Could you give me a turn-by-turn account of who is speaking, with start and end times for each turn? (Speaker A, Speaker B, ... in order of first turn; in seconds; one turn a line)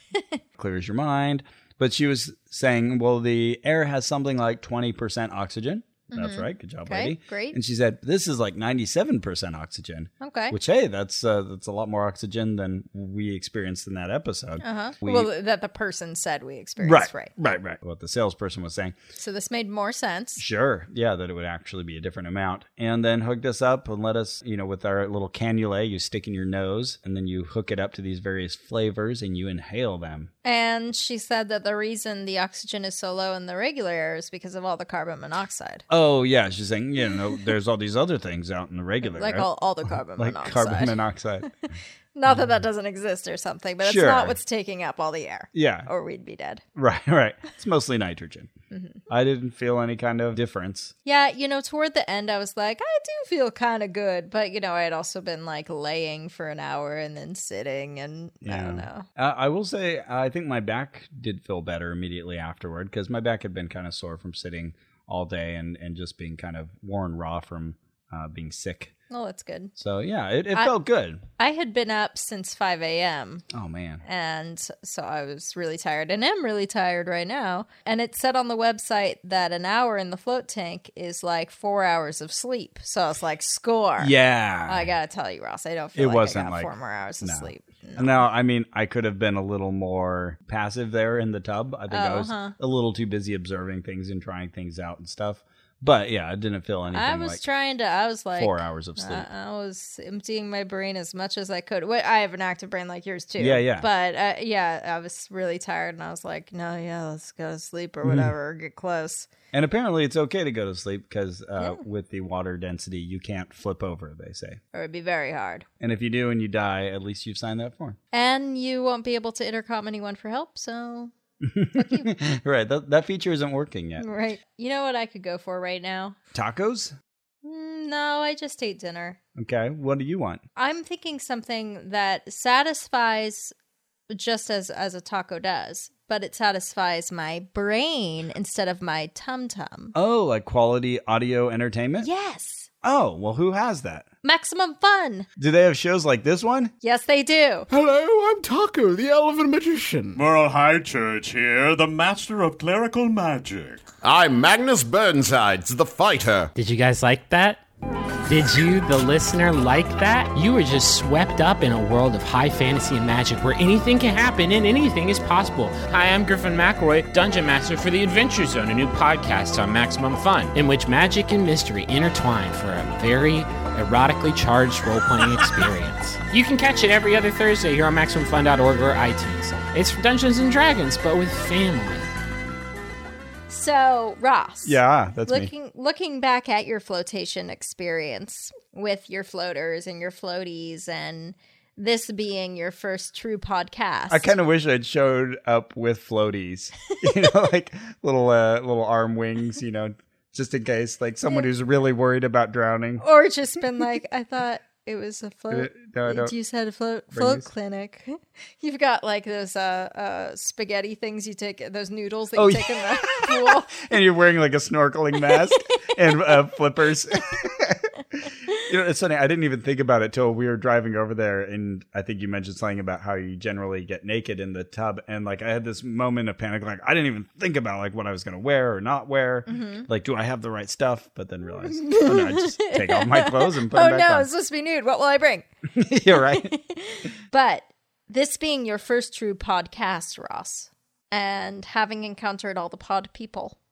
Speaker A: 0.6-15.3
Speaker B: 6.1-7.6
Speaker B: 10.2-10.6
Speaker B: 14.6-17.4
Speaker A: 16.8-18.9
Speaker B: 19.2-20.4
Speaker A: 20.4-30.3
Speaker B: 30.4-35.8
Speaker A: 35.9-41.5
Speaker B: 39.0-41.0
Speaker B: 41.7-46.6
Speaker A: 43.8-44.4
Speaker A: 45.5-45.9
Speaker A: 46.7-48.5
Speaker B: 48.7-49.0
Speaker A: 49.1-50.9
Speaker B: 51.0-59.0
Speaker A: 58.4-68.9
Speaker B: 69.1-69.7
Speaker A: 69.8-71.2
Speaker B: 71.4-73.4
Speaker A: 73.5-74.0
Speaker B: 74.0-84.1
Speaker A: 84.0-84.9
Speaker B: 84.7-88.2
Speaker A: 86.0-97.4
Speaker B: 91.9-92.5
Speaker B: 96.9-109.3
Speaker A: 98.3-99.3
Speaker A: 103.4-103.9
Speaker A: 108.0-108.3
Speaker A: 109.5-114.6
Speaker B: 114.7-115.7
Speaker A: 115.8-118.0
Speaker B: 118.1-121.1
Speaker A: 121.4-124.1
Speaker B: 121.7-122.1
Speaker B: 124.0-126.2
Speaker A: 126.3-126.9
Speaker B: 127.4-129.2
Speaker A: 129.3-130.4
Speaker B: 130.6-133.5
Speaker B: 134.1-139.9
Speaker A: 139.9-142.1
Speaker B: 142.0-142.7
Speaker A: 142.8-144.1
Speaker B: 144.2-145.3
Speaker A: 145.4-146.7
Speaker B: 146.8-147.7
Speaker C: 147.7-150.2
Speaker D: 150.2-153.8
Speaker C: 154.0-156.5
Speaker E: 156.6-157.6
Speaker E: 158.3-182.1
Speaker B: 183.5-194.3
Speaker A: 184.6-185.5
Speaker A: 194.1-203.0
Speaker B: 197.0-197.3
Speaker B: 203.0-213.8
Speaker A: 205.5-206.3
Speaker A: 207.1-207.5
Speaker A: 212.3-234.3
Speaker B: 216.1-216.3
Speaker B: 229.5-229.9
Speaker B: 231.6-235.5
Speaker A: 235.7-236.5
Speaker B: 236.1-243.6